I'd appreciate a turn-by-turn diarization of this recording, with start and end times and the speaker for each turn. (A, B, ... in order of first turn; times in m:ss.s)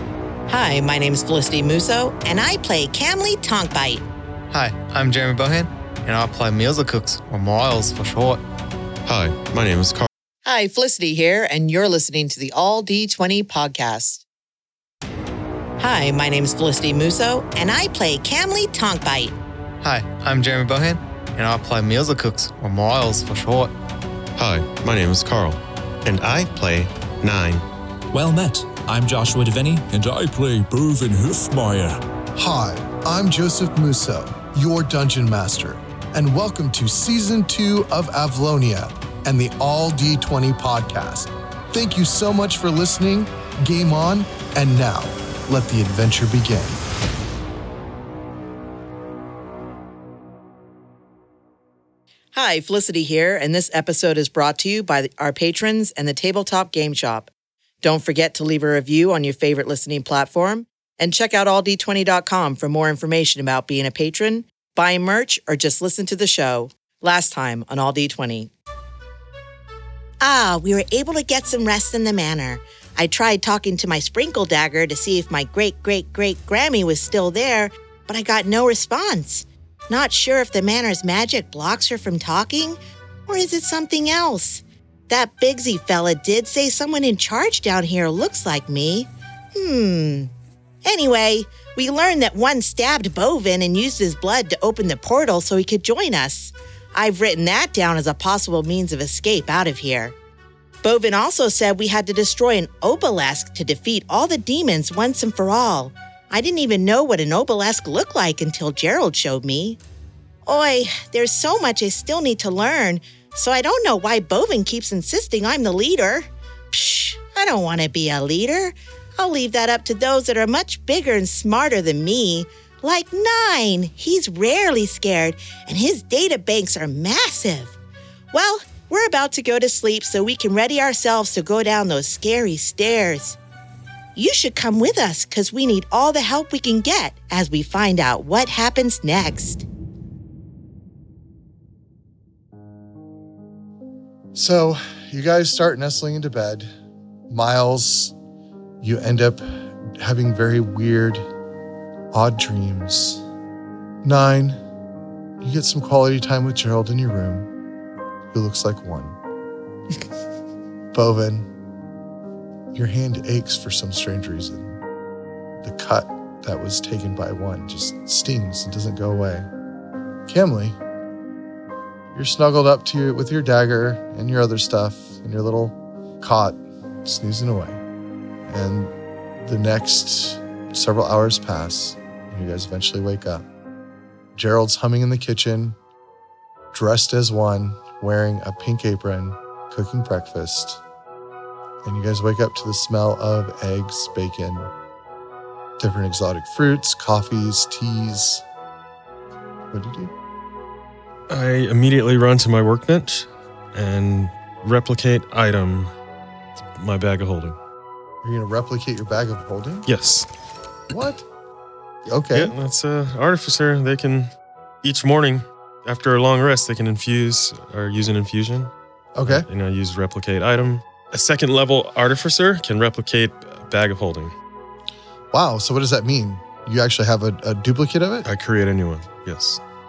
0:00.5-0:04.0 A
0:04.5-0:08.4 B
0:09.0-0:10.1 C
0:10.4-0:14.2 A
0:15.8-0:19.3 A
0:19.8-0:23.7 B
0:24.4-0:27.6 C
0:28.1-0:32.0 D
0:32.4-0:46.8 E
0:52.3-0:57.3 A
0:57.8-1:08.5 A
1:10.2-1:30.3 A
1:30.8-1:40.1 A
1:40.8-1:49.8 A
1:50.4-2:07.7 A
2:08.3-2:13.4 A
2:14.2-2:19.6 A
2:24.3-2:26.7 E
2:27.3-2:28.1 E
2:28.8-2:29.4 E
2:29.9-2:31.2 E
2:32.1-2:33.2 E
2:34.0-2:34.6 E
2:35.4-2:37.5 E
2:38.3-2:39.2 E
2:40.9-2:41.5 E
2:42.7-2:44.8 E
2:45.6-2:49.5 E
2:50.3-2:50.8 E
2:52.1-2:57.8 E
2:58.5-3:03.4 E
3:04.3-3:05.8 E
3:06.7-3:10.8 E
3:11.8-3:14.7 E
3:15.8-3:18.4 E
3:19.7-3:20.1 E
3:21.3-3:25.9 C
3:26.6-3:27.6 C
3:28.2-3:29.9 E
3:29.8-3:30.3 C
3:30.9-3:31.2 E
3:32.0-3:32.5 E
3:32.3-3:38.7 C
3:39.1-3:39.5 E
3:39.2-3:44.3 C
3:45.3-3:48.3 E
3:48.2-3:49.6 C